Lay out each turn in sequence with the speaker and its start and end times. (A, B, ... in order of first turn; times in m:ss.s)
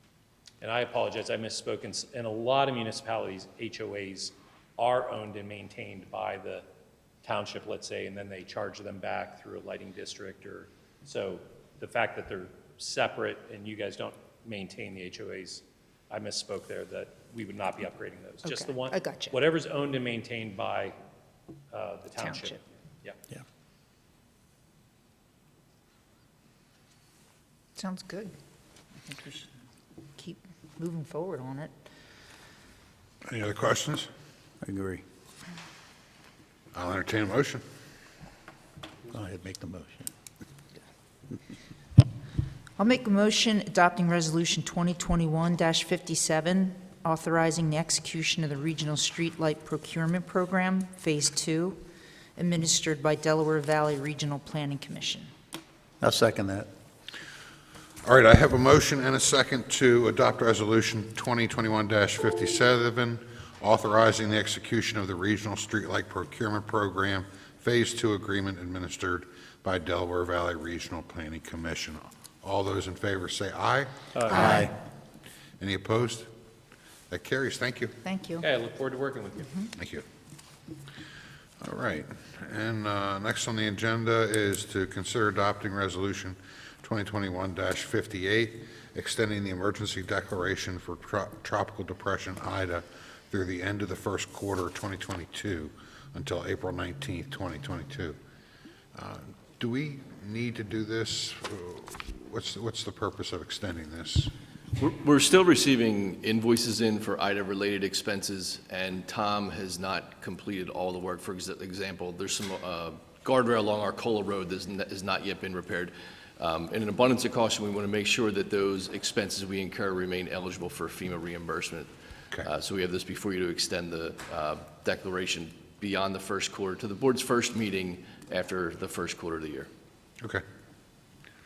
0:00.6-0:06.6 A
0:07.2-0:21.0 A
0:18.4-0:19.4 B
0:21.7-0:23.2 A
0:22.2-0:22.6 B
0:27.8-0:28.3 B
0:29.0-0:29.5 B
0:30.2-0:31.7 B
0:33.3-0:34.1 C
0:34.6-0:35.0 D
0:36.7-0:37.6 C
0:39.1-0:40.1 D
0:42.8-0:51.8 B
0:52.4-0:55.3 B
0:56.0-0:56.7 D
0:58.0-1:14.6 C
1:14.2-1:14.5 A
1:14.3-1:14.7 B
1:14.4-1:14.7 D
1:15.6-1:16.3 C
1:17.1-1:18.0 C
1:18.0-1:18.5 B
1:18.4-1:19.7 A
1:19.8-1:20.0 C
1:21.6-1:38.2 C
1:39.0-1:44.3 C
1:44.8-1:49.1 E
1:50.0-1:50.4 E
1:51.0-1:55.9 E
1:56.8-2:01.9 E
2:02.5-2:09.6 E